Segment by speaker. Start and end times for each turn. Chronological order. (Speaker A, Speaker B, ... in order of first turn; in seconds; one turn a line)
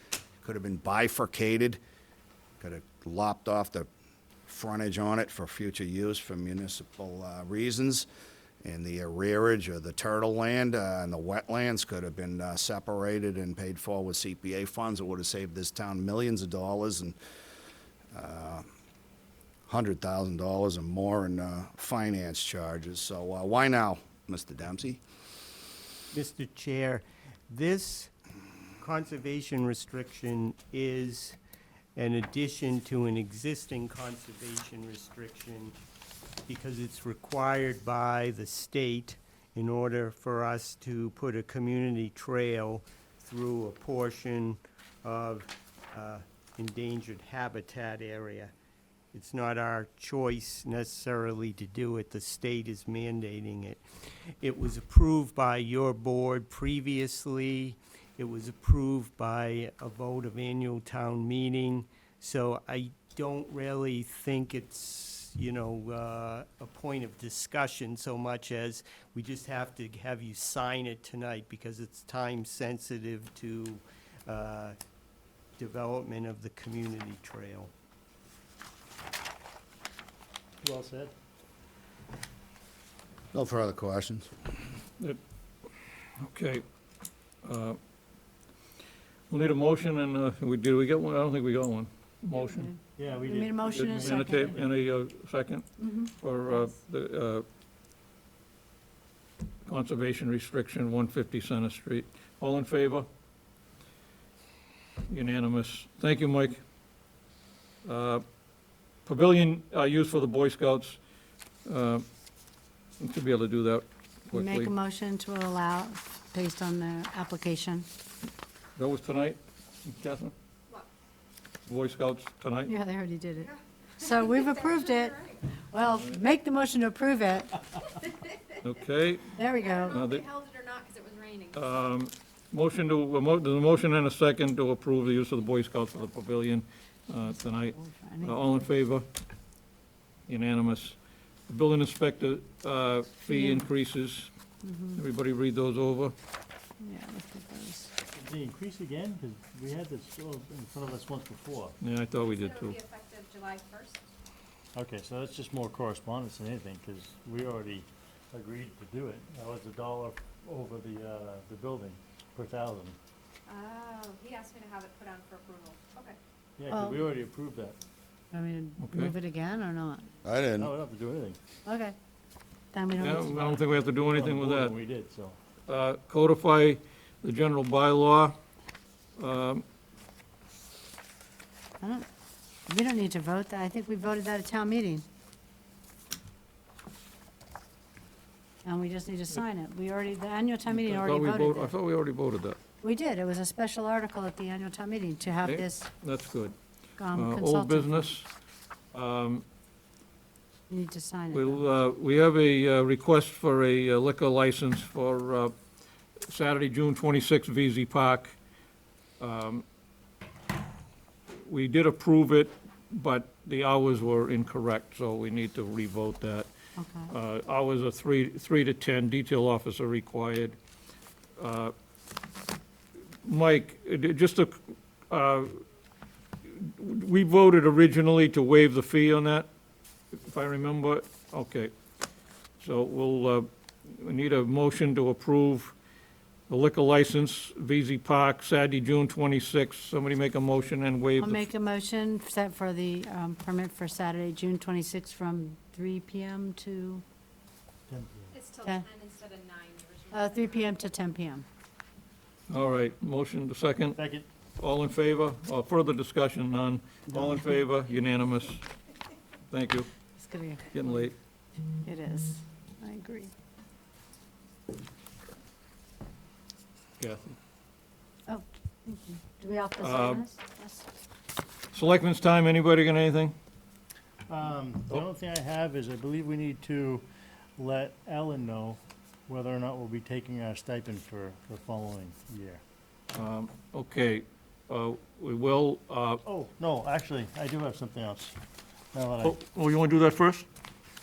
Speaker A: 0.4-1.8
Speaker A: 2.6-3.9
Speaker A: 4.5-8.1
Speaker A: 8.6-17.2
Speaker A: 18.1-18.7
Speaker A: 19.7-25.0
Speaker B: 26.1-28.1
Speaker B: 28.8-31.4
Speaker B: 32.0-35.8
Speaker B: 36.5-48.5
Speaker B: 49.1-74.8
Speaker B: 75.6-77.7
Speaker C: 80.6-81.1
Speaker A: 83.3-84.3
Speaker D: 86.2-86.6
Speaker D: 87.4-87.8
Speaker D: 89.3-92.7
Speaker E: 92.3-94.5
Speaker C: 93.0-94.6
Speaker D: 93.7-97.5
Speaker E: 95.8-96.7
Speaker D: 99.7-103.1
Speaker D: 105.1-106.6
Speaker D: 107.8-108.2
Speaker D: 109.0-111.0
Speaker D: 111.7-112.0
Speaker D: 113.0-114.7
Speaker E: 114.3-117.9
Speaker D: 118.8-120.3
Speaker D: 121.7-122.8
Speaker E: 122.7-127.7
Speaker F: 124.5-125.4
Speaker D: 128.6-130.3
Speaker E: 129.3-130.0
Speaker F: 129.6-131.8
Speaker D: 131.6-139.1
Speaker E: 137.8-138.4
Speaker D: 140.3-141.0
Speaker D: 141.5-144.3
Speaker E: 143.3-143.7
Speaker E: 144.6-145.0
Speaker D: 144.9-146.1
Speaker E: 146.8-147.9
Speaker C: 148.1-151.8
Speaker D: 151.8-152.8
Speaker F: 152.2-154.0
Speaker C: 154.8-163.0
Speaker F: 163.5-166.2
Speaker C: 166.6-167.8
Speaker E: 166.7-167.0
Speaker E: 168.3-170.1
Speaker D: 168.8-169.2
Speaker A: 170.2-170.7
Speaker C: 170.6-171.4
Speaker E: 171.7-172.0
Speaker E: 172.7-173.4
Speaker D: 173.0-174.8
Speaker C: 173.2-175.4
Speaker D: 175.7-178.4
Speaker D: 179.2-179.6
Speaker E: 181.8-182.1
Speaker E: 182.7-185.1
Speaker E: 188.7-191.7
Speaker D: 190.7-192.6
Speaker E: 192.8-195.9
Speaker D: 195.4-196.6
Speaker E: 197.0-198.1
Speaker D: 197.1-198.3
Speaker D: 198.9-199.4
Speaker E: 200.7-201.6
Speaker D: 201.3-205.5
Speaker D: 206.3-208.3
Speaker D: 209.2-209.6
Speaker D: 211.3-216.5
Speaker E: 216.8-217.1
Speaker D: 217.1-220.6
Speaker D: 221.4-221.7
Speaker D: 223.2-225.6
Speaker D: 226.4-229.5
Speaker D: 230.1-231.7
Speaker D: 232.6-235.7
Speaker D: 236.5-241.4
Speaker E: 241.2-247.0
Speaker C: 247.9-248.3
Speaker F: 248.3-250.8
Speaker E: 250.1-251.5
Speaker D: 252.5-254.0
Speaker C: 253.9-254.3
Speaker D: 254.6-258.6
Speaker D: 259.5-259.9
Speaker E: 260.2-261.1
Speaker D: 260.7-261.1
Speaker E: 261.8-263.3
Speaker D: 267.0-267.4
Speaker E: 268.3-270.9
Speaker D: 269.8-270.3
Speaker D: 271.7-273.4
Speaker C: 274.3-277.1
Speaker C: 277.6-282.6
Speaker D: 283.1-286.2
Speaker C: 286.2-288.4
Speaker C: 288.9-289.4
Speaker D: 289.2-290.5